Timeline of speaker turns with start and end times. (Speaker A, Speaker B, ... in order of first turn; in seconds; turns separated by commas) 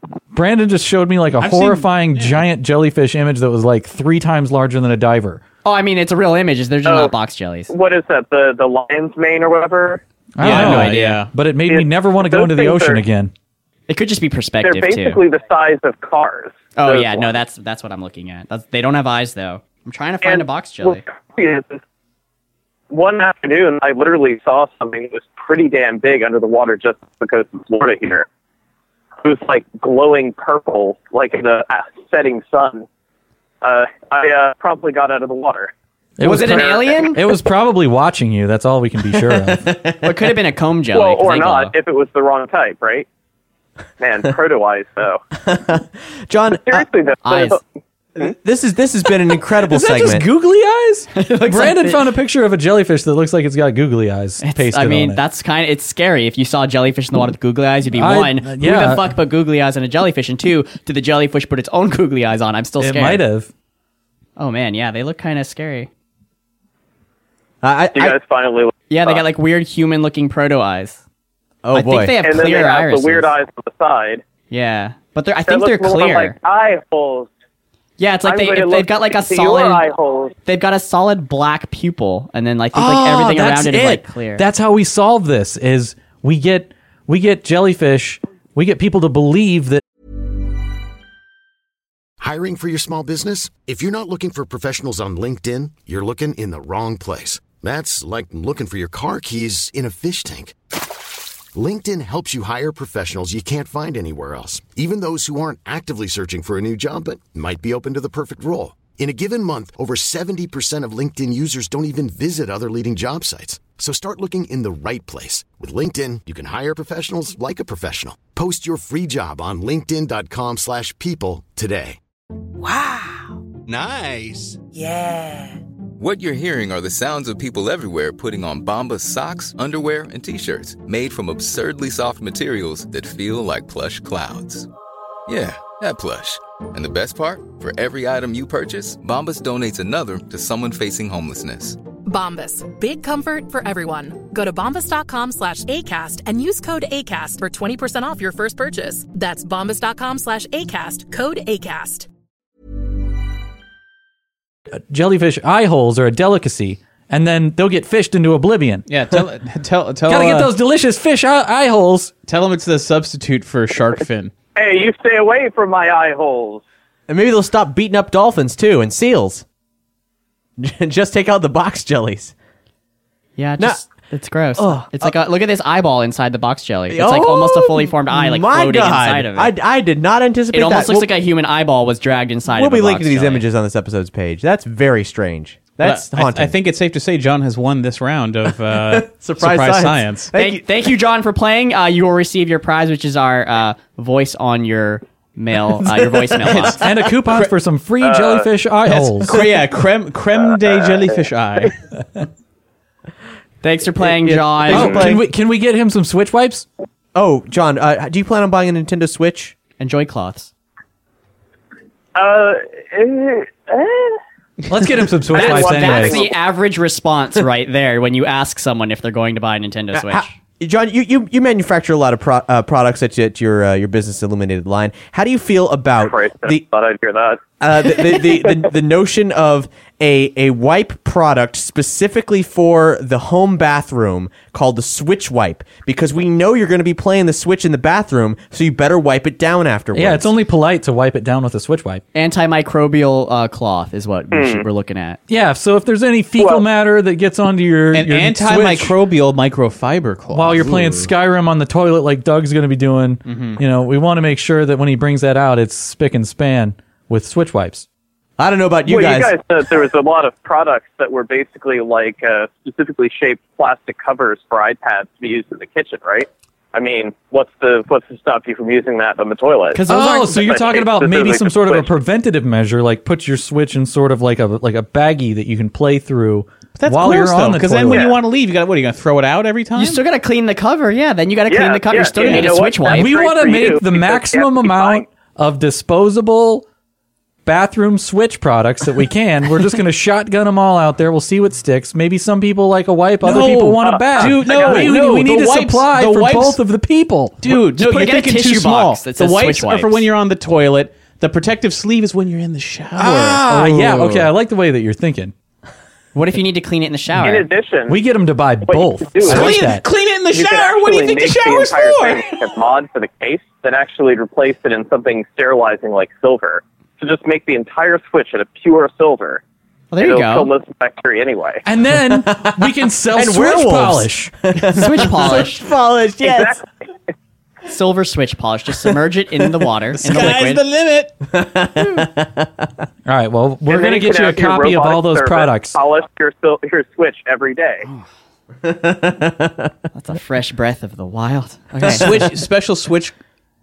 Speaker A: 0.3-5.4, Speaker B: 1.4-2.4, Speaker C: 5.7-7.7, Speaker D: 6.9-7.1, Speaker D: 7.7-10.0, Speaker A: 10.4-13.3, Speaker B: 10.4-11.3, Speaker C: 10.4-11.2, Speaker D: 11.7-13.0, Speaker C: 13.9-15.2, Speaker D: 14.6-17.3, Speaker C: 16.8-21.0, Speaker D: 20.2-21.8, Speaker D: 22.9-28.3, Speaker D: 29.2-32.9, Speaker D: 33.6-35.7, Speaker A: 36.2-39.8, Speaker C: 36.2-37.2, Speaker D: 36.4-37.1, Speaker E: 39.5-40.0, Speaker C: 40.0-41.7, Speaker D: 40.9-43.1, Speaker D: 44.0-45.2, Speaker E: 45.4-46.9, Speaker D: 46.6-47.6, Speaker C: 47.2-47.6, Speaker E: 48.2-50.2, Speaker A: 49.6-55.2, Speaker C: 51.1-52.1, Speaker C: 54.4-63.2, Speaker A: 57.9-59.1, Speaker A: 62.8-63.5, Speaker C: 64.4-65.9, Speaker E: 67.6-68.2, Speaker D: 68.0-69.2, Speaker C: 68.9-71.0, Speaker E: 71.6-72.2, Speaker C: 71.7-73.3, Speaker D: 72.2-74.2, Speaker C: 74.5-76.4, Speaker D: 75.5-77.3, Speaker C: 78.0-79.8, Speaker D: 78.2-80.3, Speaker C: 80.5-84.5, Speaker A: 82.7-89.8, Speaker F: 92.2-100.5, Speaker F: 101.5-122.0, Speaker F: 123.7-124.6, Speaker G: 126.0-134.7, Speaker G: 135.3-141.8, Speaker H: 142.1-152.1, Speaker A: 154.7-159.2, Speaker B: 158.9-160.5, Speaker A: 160.1-162.1, Speaker B: 162.3-164.3, Speaker D: 164.6-166.6, Speaker E: 167.1-169.4, Speaker E: 170.6-172.3, Speaker C: 173.4-179.5, Speaker E: 174.6-175.2, Speaker E: 176.9-181.1, Speaker C: 180.5-183.4, Speaker E: 182.5-186.6, Speaker B: 185.8-190.3, Speaker E: 188.7-190.6, Speaker C: 190.3-196.8, Speaker B: 196.4-197.5, Speaker A: 196.8-199.4, Speaker D: 198.0-198.5, Speaker B: 198.8-201.8, Speaker C: 203.6-205.1, Speaker E: 204.0-205.2, Speaker A: 204.7-206.7, Speaker E: 207.1-209.6, Speaker C: 209.8-210.5, Speaker D: 212.2-214.2, Speaker A: 214.7-216.2, Speaker D: 215.3-216.3, Speaker C: 215.3-220.3, Speaker E: 219.9-226.6, Speaker D: 226.0-227.4, Speaker E: 227.6-240.3, Speaker A: 239.9-242.0, Speaker C: 242.1-245.2, Speaker D: 244.3-244.7, Speaker A: 245.3-248.9, Speaker D: 246.4-246.6, Speaker B: 247.9-251.1, Speaker A: 250.3-257.9, Speaker B: 253.3-253.6, Speaker E: 258.4-259.4, Speaker D: 258.9-271.9, Speaker A: 269.9-278.1, Speaker B: 276.8-280.0, Speaker D: 277.9-278.1, Speaker C: 279.8-283.1, Speaker D: 281.5-285.1, Speaker A: 282.9-286.6, Speaker A: 287.5-297.4, Speaker B: 293.2-296.6, Speaker D: 293.8-294.9, Speaker B: 297.4-304.3, Speaker C: 297.8-300.1, Speaker A: 303.0-305.3, Speaker C: 306.1-307.5, Speaker D: 307.2-308.0, Speaker A: 307.9-309.8, Speaker D: 308.6-309.6, Speaker B: 309.2-312.4, Speaker D: 310.3-319.4, Speaker C: 319.9-320.5, Speaker D: 320.0-321.6, Speaker A: 321.6-324.3, Speaker E: 322.2-326.6, Speaker C: 324.7-325.6, Speaker D: 326.2-326.6, Speaker C: 327.7-330.6, Speaker B: 330.0-331.1, Speaker E: 331.3-332.7, Speaker A: 333.1-335.8, Speaker D: 333.7-337.9, Speaker E: 338.6-339.7, Speaker C: 339.9-342.2, Speaker E: 341.8-342.3, Speaker B: 341.9-343.1